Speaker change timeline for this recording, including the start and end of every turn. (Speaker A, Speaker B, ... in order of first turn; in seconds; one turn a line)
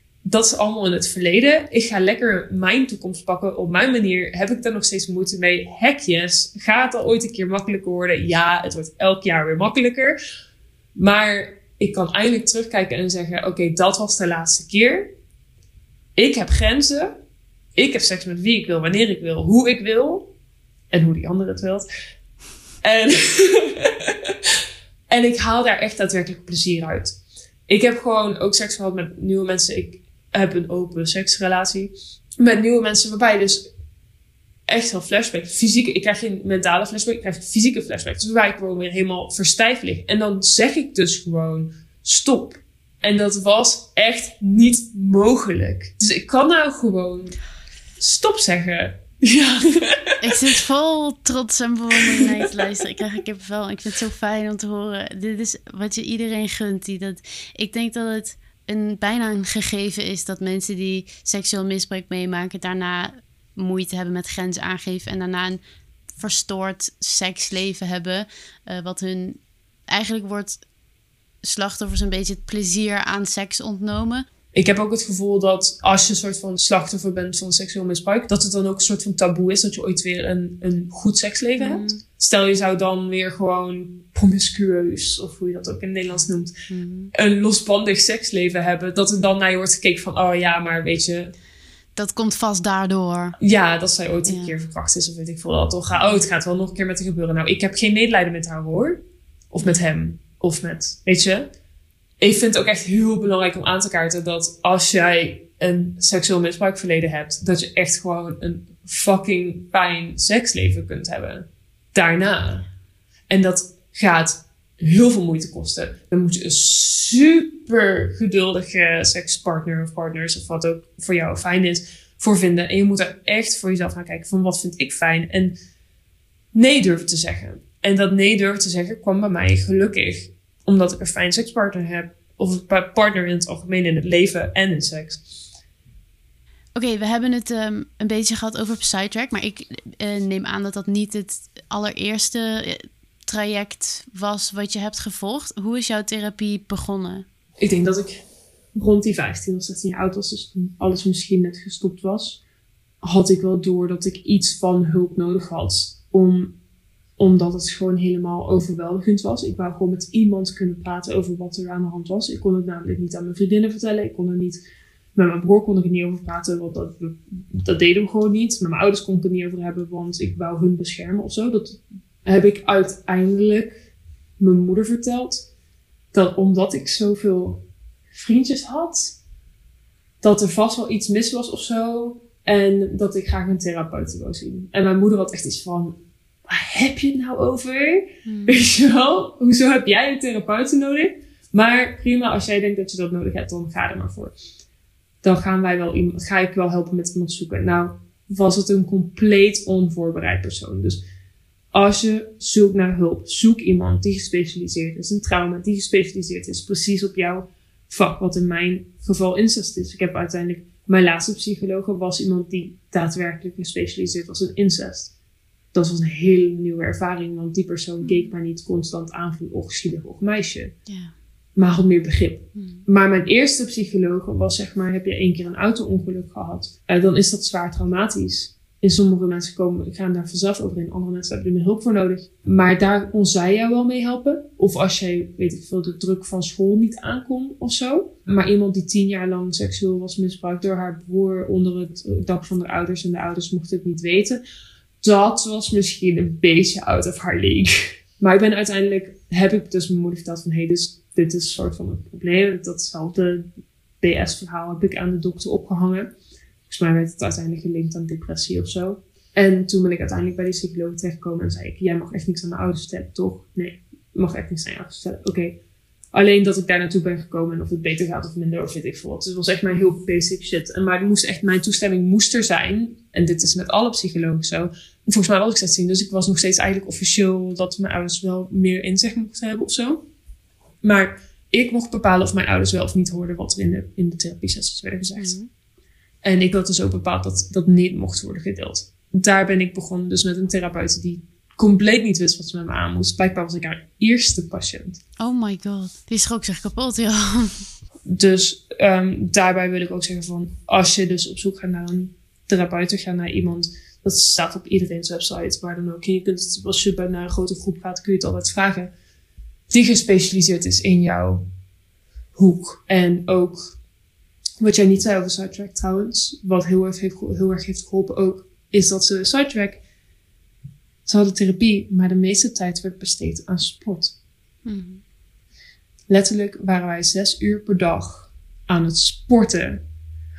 Speaker A: 0.2-10.2
Speaker A: 10.9-15.1
Speaker A: 16.1-17.1
Speaker A: 17.7-20.3
Speaker A: 20.9-21.9
Speaker A: 22.8-24.5
Speaker A: 25.1-33.7
Speaker A: 34.7-47.4
Speaker A: 48.0-50.2
Speaker B: 50.2-65.6
Speaker A: 52.0-52.5
Speaker B: 66.2-70.6
Speaker B: 71.4-74.2
Speaker A: 74.5-86.5
Speaker B: 81.6-82.0
Speaker B: 86.7-87.1
Speaker A: 87.1-91.3
Speaker B: 92.0-93.4
Speaker A: 93.4-101.5
Speaker B: 94.2-94.5
Speaker A: 102.2-112.7
Speaker A: 113.3-125.5
Speaker A: 126.5-135.4
Speaker B: 136.8-147.2
Speaker A: 147.6-148.2
Speaker A: 148.8-152.4
Speaker A: 153.0-156.5
Speaker A: 157.2-164.6
Speaker A: 165.1-173.7
Speaker A: 174.4-175.4
Speaker A: 176.1-179.2
Speaker A: 180.2-194.3
Speaker B: 188.2-188.7
Speaker A: 195.2-201.0
Speaker A: 201.7-215.1
Speaker A: 215.7-220.7
Speaker B: 218.0-218.3
Speaker B: 220.9-221.1
Speaker A: 221.6-244.4
Speaker B: 222.5-222.8
Speaker A: 245.0-253.5
Speaker A: 254.0-256.1
Speaker A: 256.7-265.6
Speaker A: 266.1-280.0
Speaker A: 280.8-285.4
Speaker B: 285.1-285.5
Speaker A: 286.2-295.0
Speaker B: 295.2-297.7
Speaker A: 298.1-308.9
Speaker A: 309.7-311.4
Speaker A: 312.4-313.8
Speaker A: 314.6-319.8
Speaker A: 321.1-324.1
Speaker B: 324.6-325.0
Speaker A: 326.1-329.8